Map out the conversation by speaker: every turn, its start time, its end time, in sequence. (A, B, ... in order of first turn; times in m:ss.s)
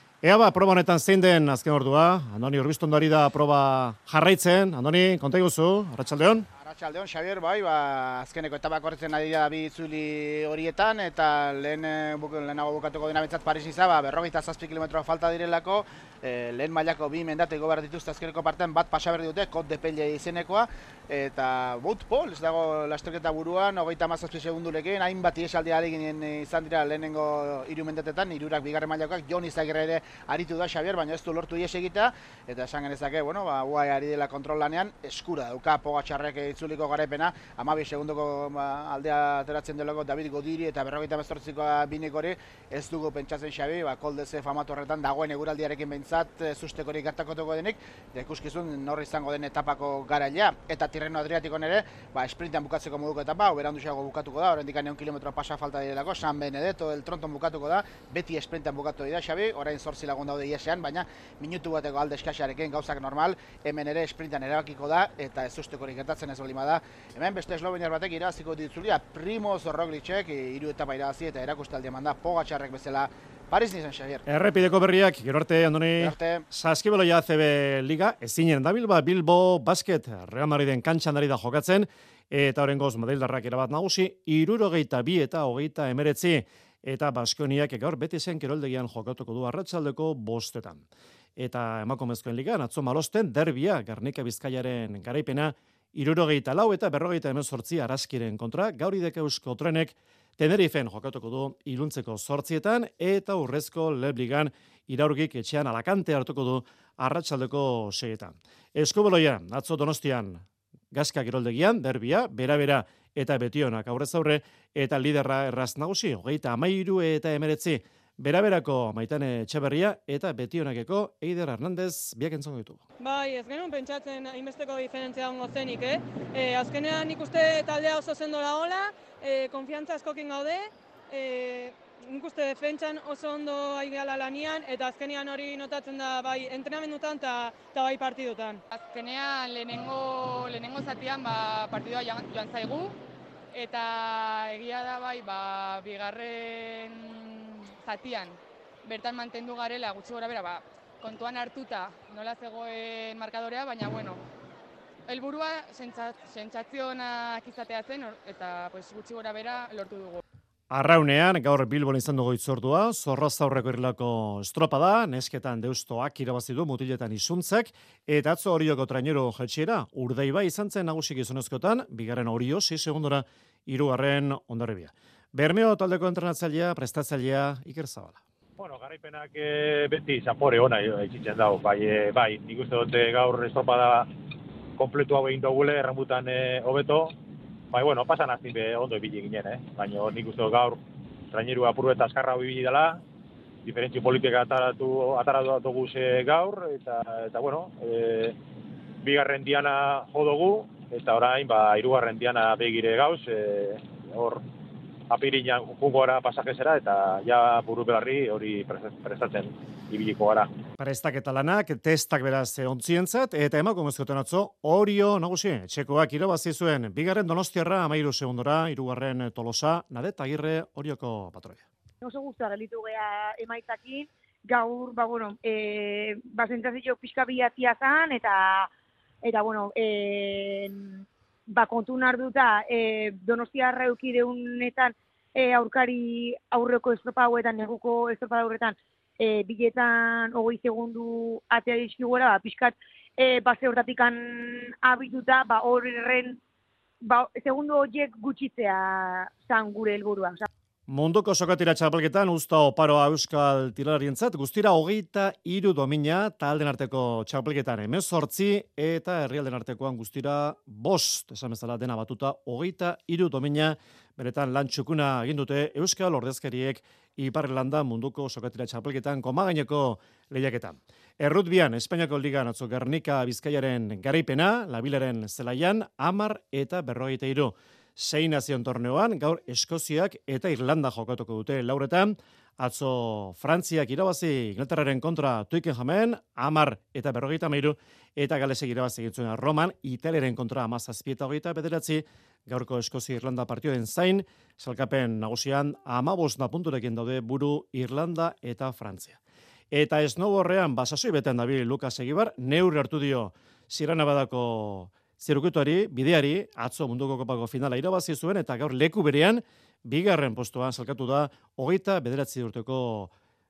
0:00.2-0:06.5 A
0:06.6-1:14.2 B
1:14.2-1:30.8 A
1:16.0-1:16.4 B
1:31.4-2:02.8 A
2:03.0-2:18.6 C
2:18.7-2:23.0 D
2:23.5-2:34.2 D
2:35.0-2:40.2 D
2:40.7-2:58.2 A
2:58.6-3:04.0 E
3:04.8-3:07.1 E
3:07.7-3:10.8 E
3:11.3-3:13.0 E
3:13.7-3:18.3 E
3:19.0-3:24.4 E
3:25.1-3:30.4 E
3:30.8-3:41.6 A
3:42.0-3:48.7 F
3:49.2-4:06.4 F
4:07.0-4:10.5 F
4:10.9-4:59.2 A
4:59.7-5:13.1 A